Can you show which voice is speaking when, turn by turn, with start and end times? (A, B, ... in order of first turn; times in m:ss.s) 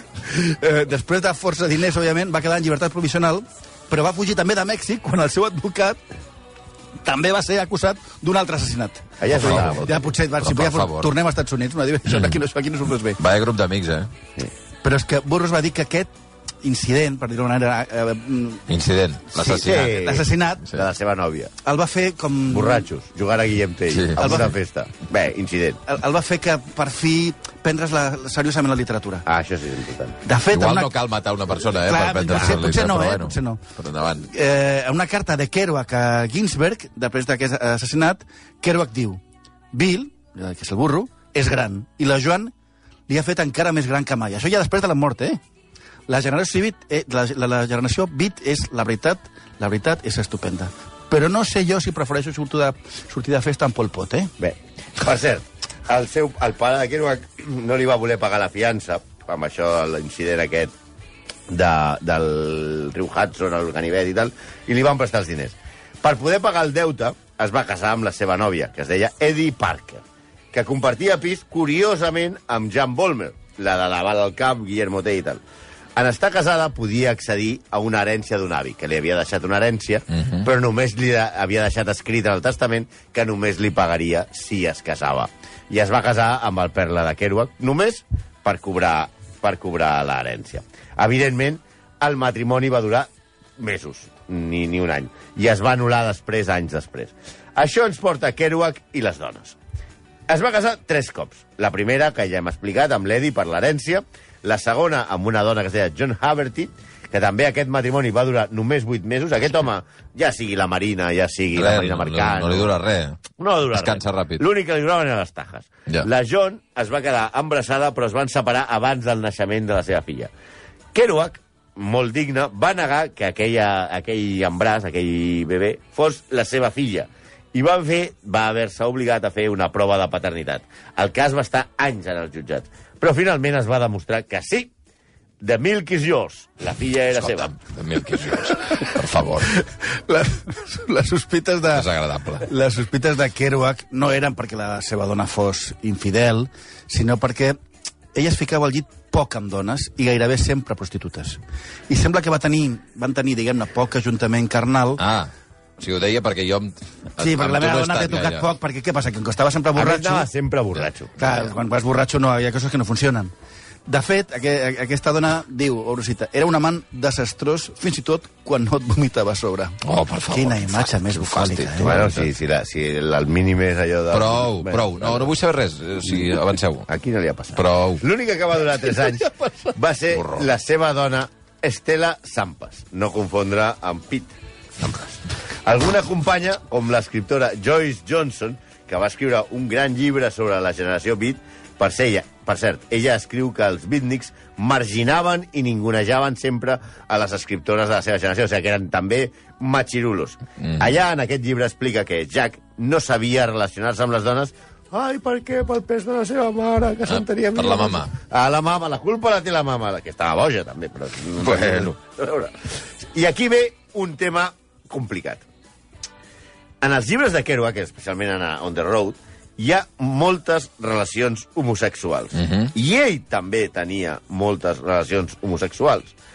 0:00.2-0:06.0 A
0:07.0-0:13.2 A
0:09.2-0:10.1 B
0:09.3-0:09.9 C
0:10.4-0:11.1 C
0:12.1-0:12.4 C
0:13.2-0:14.1 C
0:14.8-0:16.1 A
0:16.6-0:18.6 A
0:18.7-0:20.0 C
0:19.3-0:20.6 A
0:19.5-0:21.5 B
0:21.6-0:22.8 A
0:22.5-0:25.8 B
0:23.9-0:24.4 C
0:24.2-0:24.5 A
0:25.9-0:29.2 A
0:29.2-0:30.2 B
0:30.2-0:30.9 A
0:30.5-0:34.3 C
0:31.8-0:33.6 A
0:34.3-0:39.2 A
0:39.7-0:42.5 A
0:43.1-0:45.4 A
0:46.1-0:54.3 A
0:54.4-1:00.7 B
1:01.5-1:15.4 B
1:16.0-1:39.6 B
1:20.1-1:20.5 C
1:40.3-1:52.7 B
1:51.5-1:54.4 C
1:53.4-2:00.3 B
2:00.9-2:14.7 B
2:15.4-2:17.5 B
2:17.2-2:19.5 C
2:19.5-2:21.9 A
2:21.7-2:22.5 C
2:22.4-2:27.6 A
2:28.1-2:35.0 A
2:35.0-2:38.5 C
2:37.2-2:40.3 A
2:39.8-2:41.2 B
2:41.2-2:43.3 A
2:43.9-2:52.0 A
2:49.8-2:52.3 C
2:51.8-2:55.3 B
2:54.1-2:56.9 C
2:56.1-3:35.4 B
2:57.5-2:58.0 C
3:00.1-3:00.4 C
3:20.6-3:20.9 C
3:27.1-3:28.1 C
3:31.4-3:31.9 C
3:36.8-3:46.2 B
3:42.4-3:42.7 C